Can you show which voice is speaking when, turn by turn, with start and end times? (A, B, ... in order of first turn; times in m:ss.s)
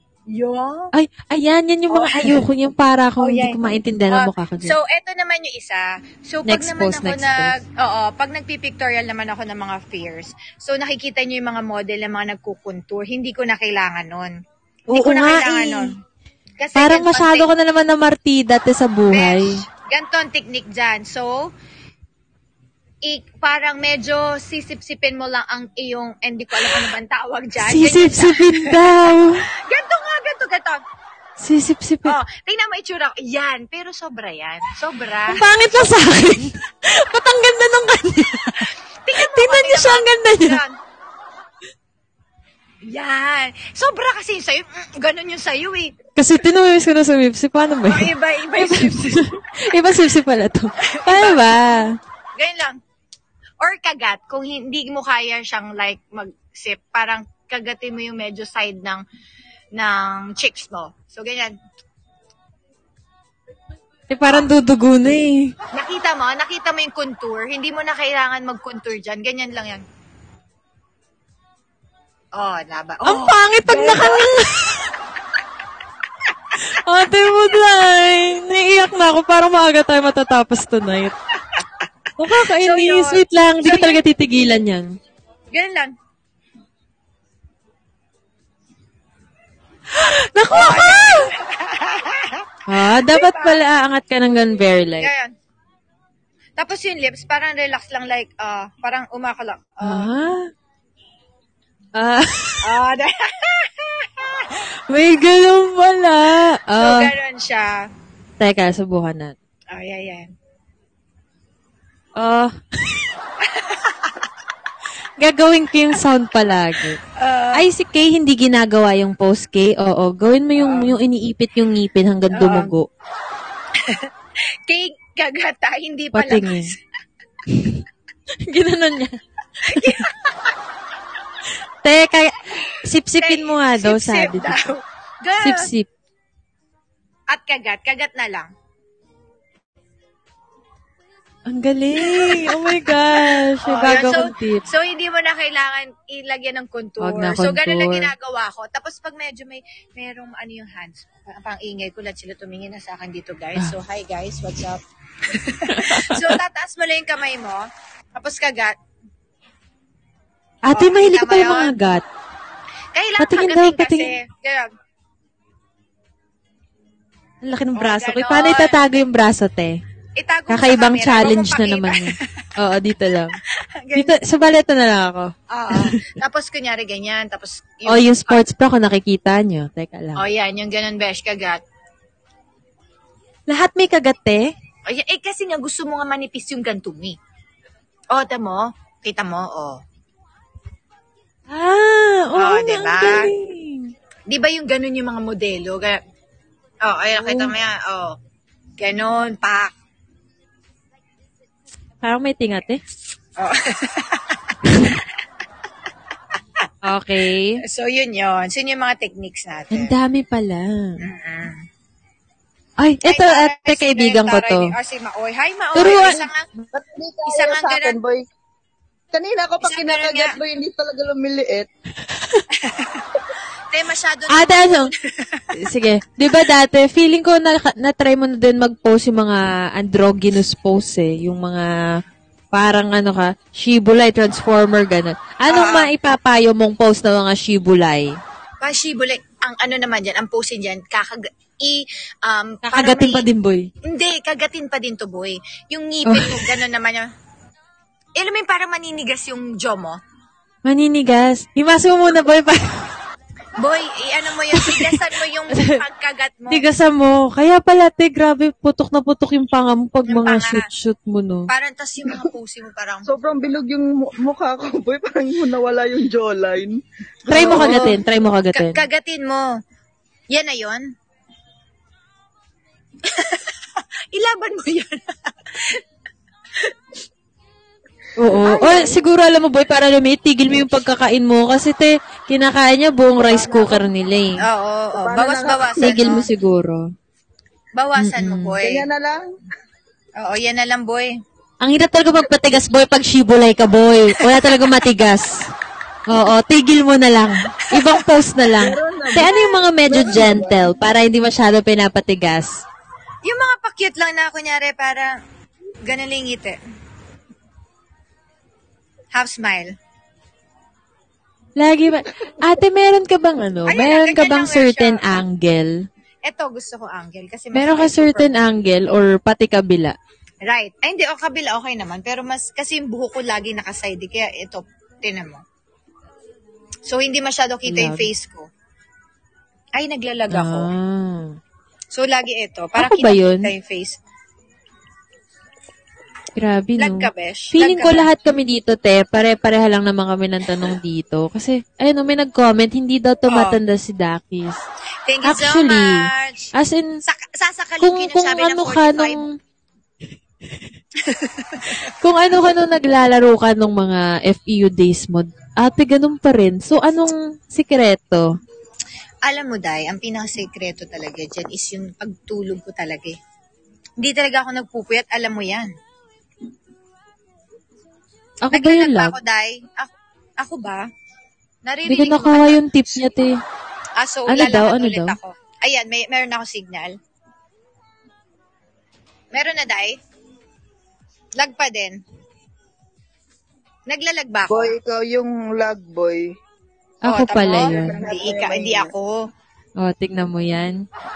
0:00.3-0:00.9 A
0:00.9-0:04.8 B
0:01.9-0:02.4 A
0:03.2-0:14.3 A
0:06.5-0:07.6 B
0:14.9-0:16.0 A
0:14.9-0:16.0 B
0:16.6-0:17.5 A
0:16.8-0:19.6 B
0:19.1-0:21.4 A
0:23.0-0:29.1 A
0:27.6-0:29.4 B
0:29.7-0:30.8 A
0:31.4-0:32.2 B
0:32.1-0:35.9 A
0:35.3-0:40.6 B
0:38.6-0:40.8 A
0:42.9-0:46.0 A
0:46.2-0:52.0 B
0:47.9-0:49.2 A
0:50.8-0:51.5 A
0:52.4-0:52.8 A
0:53.6-0:59.0 A
0:59.8-1:01.6 A
1:04.1-1:05.5 B
1:05.7-1:09.8 A
1:12.4-1:14.3 A
1:13.0-1:14.9 B
1:16.6-1:21.2 B
1:22.2-1:24.9 B
1:22.5-1:24.0 A
1:25.5-1:25.9 A
1:29.9-1:31.3 B
1:30.5-1:33.6 A
1:32.7-1:35.1 B
1:35.0-1:35.3 A
1:36.6-1:40.1 A
1:39.8-1:40.5 B
1:42.0-1:42.8 B
1:42.6-1:44.6 A
1:44.9-1:47.1 B
1:46.8-1:47.7 A
1:48.4-1:49.4 B
1:49.7-1:50.3 A
1:52.2-1:53.0 B
1:53.5-1:54.0 A
1:55.2-1:57.0 B
1:57.2-1:57.7 A
1:57.5-2:02.9 B
2:00.6-2:00.9 A
2:02.3-2:02.7 A
2:03.8-2:06.8 A
2:06.1-2:06.7 B
2:07.5-2:07.8 B
2:08.4-2:10.1 B
2:09.6-2:10.6 A
2:11.8-2:14.6 B
2:12.7-2:15.7 A
2:15.4-2:15.9 B
2:17.3-2:18.5 A
2:21.5-2:24.6 B
2:22.0-2:22.7 A
2:23.6-2:38.8 A
2:27.0-2:28.1 B
2:35.7-2:36.4 B
2:40.7-2:42.0 B
2:40.7-2:41.7 A
2:42.9-2:44.7 A
2:43.2-2:44.1 B
2:47.4-2:49.8 B
2:47.8-2:48.8 A
2:50.2-2:52.4 A
2:50.5-2:53.4 B
2:53.5-2:54.2 A
2:53.9-2:56.0 B
2:55.5-2:58.4 A
2:57.9-3:00.2 B
3:00.2-3:01.6 A
3:03.5-3:04.4 B
3:04.9-3:07.2 A
3:08.1-3:09.8 A
3:11.5-3:13.9 B
3:12.4-3:13.3 A
3:14.3-3:16.0 A
3:16.8-3:18.2 A
3:17.2-3:17.5 B
3:18.8-3:19.7 A
3:22.0-3:22.8 B
3:23.4-3:24.6 A
3:24.6-3:25.0 B
3:26.8-3:27.6 B
3:27.6-3:29.9 A
3:29.7-3:31.0 B
3:31.0-3:31.6 A
3:32.8-3:34.8 B
3:33.1-3:36.5 A
3:35.8-3:36.2 B
3:35.9-3:36.2 C
3:36.7-3:38.2 C
3:37.3-3:38.0 A
3:39.1-3:41.7 C
3:39.6-3:40.4 A
3:42.5-3:43.1 A
3:43.7-3:45.5 A
3:44.3-3:44.9 B
3:45.5-3:51.7 B
3:52.5-3:58.1 B
3:55.5-3:55.9 A
3:58.6-4:03.3 A
4:02.7-4:03.7 B
4:03.8-4:07.1 A
4:06.1-4:06.5 B
4:08.2-4:10.0 A
4:10.6-4:13.0 B
4:13.6-4:16.6 A
4:14.5-4:15.8 B
4:16.5-4:21.5 B
4:20.1-4:20.7 A
4:21.5-4:23.1 A
4:23.1-4:28.0 C
4:27.3-4:28.0 A
4:27.3-4:28.8 B
4:28.5-4:29.5 A
4:30.3-4:30.8 A
4:33.1-4:33.5 A
4:34.1-4:35.8 A
4:38.2-4:44.4 B
4:38.4-4:39.0 A
4:43.3-4:43.9 C
4:44.4-4:46.3 A
4:45.0-4:46.1 C
4:45.8-4:46.8 B
4:47.8-4:48.9 A
4:48.0-4:48.6 B
4:48.6-4:49.3 C
4:50.2-4:51.1 A
4:51.6-4:55.4 B
4:54.2-4:54.7 A
4:56.1-5:02.6 B
4:57.7-4:58.0 A
4:58.6-5:00.6 C
4:59.2-4:59.6 A
5:03.2-5:05.2 A
5:05.9-5:06.6 A
5:09.1-5:09.7 A
5:11.6-5:15.7 B
5:13.7-5:15.2 A
5:16.3-5:18.3 A
5:17.5-5:20.0 B
5:20.5-5:25.4 A
5:26.9-5:28.5 A
5:27.7-5:28.1 B
5:29.8-5:30.7 A
5:30.3-5:31.4 B
5:32.0-5:34.0 A
5:32.8-5:33.5 B
5:36.4-5:44.6 B
5:36.8-5:38.1 A
5:43.3-5:43.6 A
5:45.1-5:46.5 A
5:45.2-5:46.9 B
5:47.1-5:49.2 A
5:47.8-5:49.3 B
5:51.0-5:51.8 A
5:51.8-5:58.3 B
5:59.2-6:03.2 A
6:04.0-6:05.7 A
6:08.4-6:09.2 B
6:08.5-6:10.8 A
6:11.7-6:12.6 A
6:11.9-6:13.4 B
6:14.0-6:16.9 A
6:14.3-6:15.2 B
6:19.3-6:20.0 A
6:21.4-6:22.0 A
6:23.9-6:24.8 A
6:24.5-6:26.3 C
6:27.0-6:28.0 B
6:27.1-6:29.2 A
6:27.6-6:28.9 C
6:29.8-6:30.8 B